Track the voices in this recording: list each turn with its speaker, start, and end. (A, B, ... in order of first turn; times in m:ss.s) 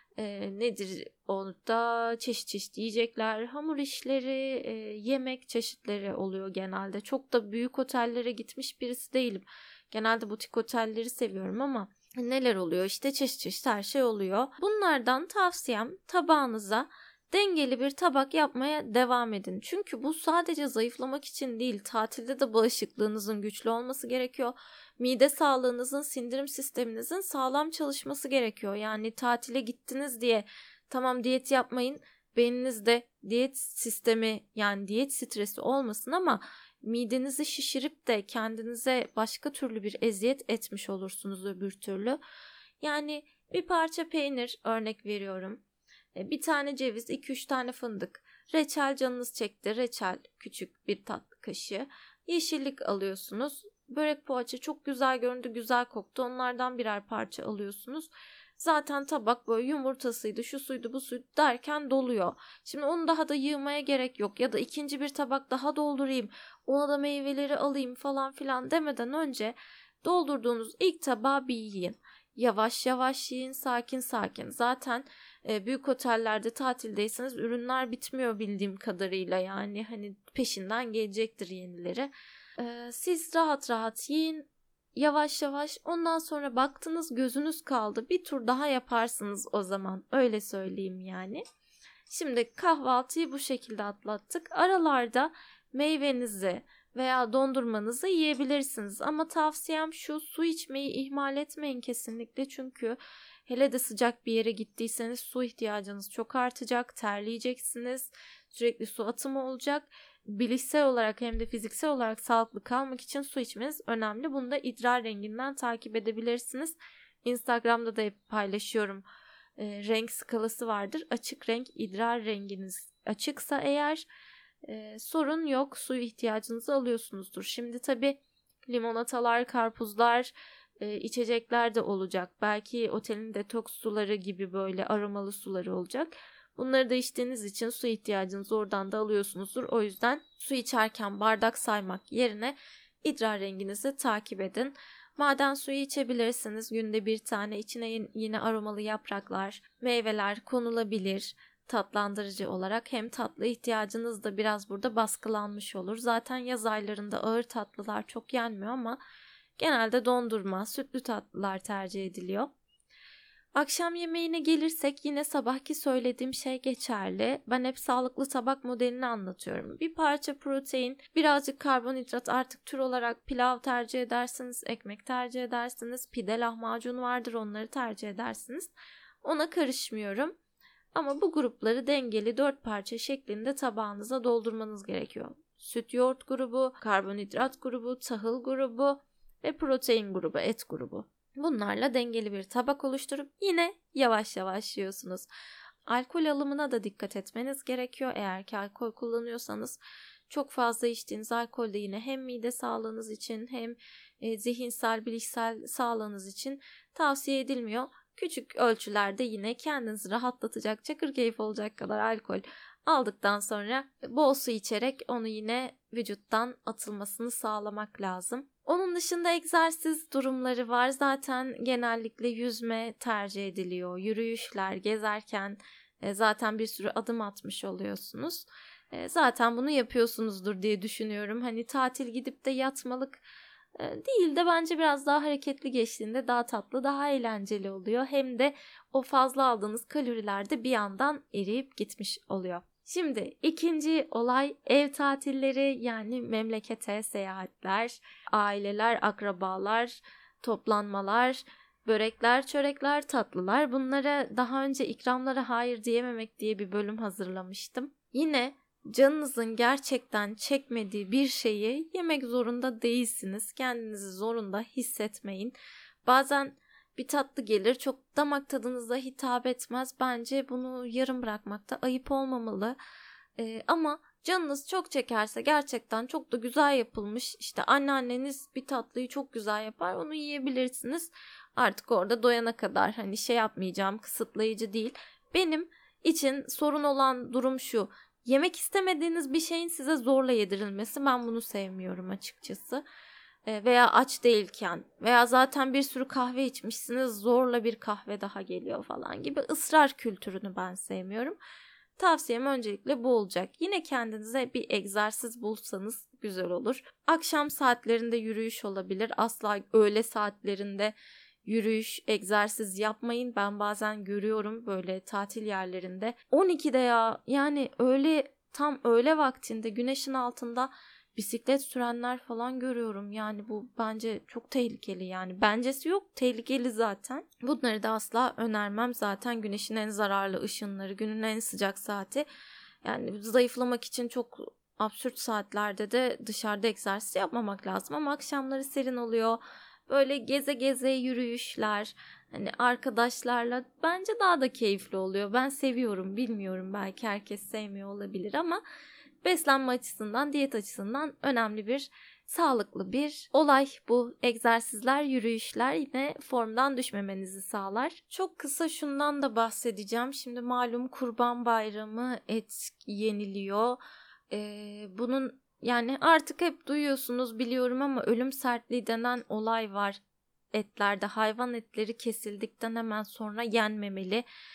0:00.2-0:42.2 A
0:42.8-0:45.6 A
0:46.2-1:31.4 A
1:32.1-1:59.0 A
1:59.6-2:04.0 A
2:04.7-2:39.0 A
2:39.6-2:42.5 A
2:43.6-2:58.7 A
2:59.2-3:00.3 A
3:00.9-3:15.3 A
3:15.9-3:19.8 A
3:20.3-3:53.2 A
3:53.8-4:32.8 A
4:33.4-4:52.8 A
4:53.5-5:01.4 A
5:02.0-5:10.9 A
5:11.4-5:32.2 A
5:32.8-5:48.6 A
5:49.2-6:03.8 A
6:04.3-6:10.0 A
6:10.5-6:14.2 A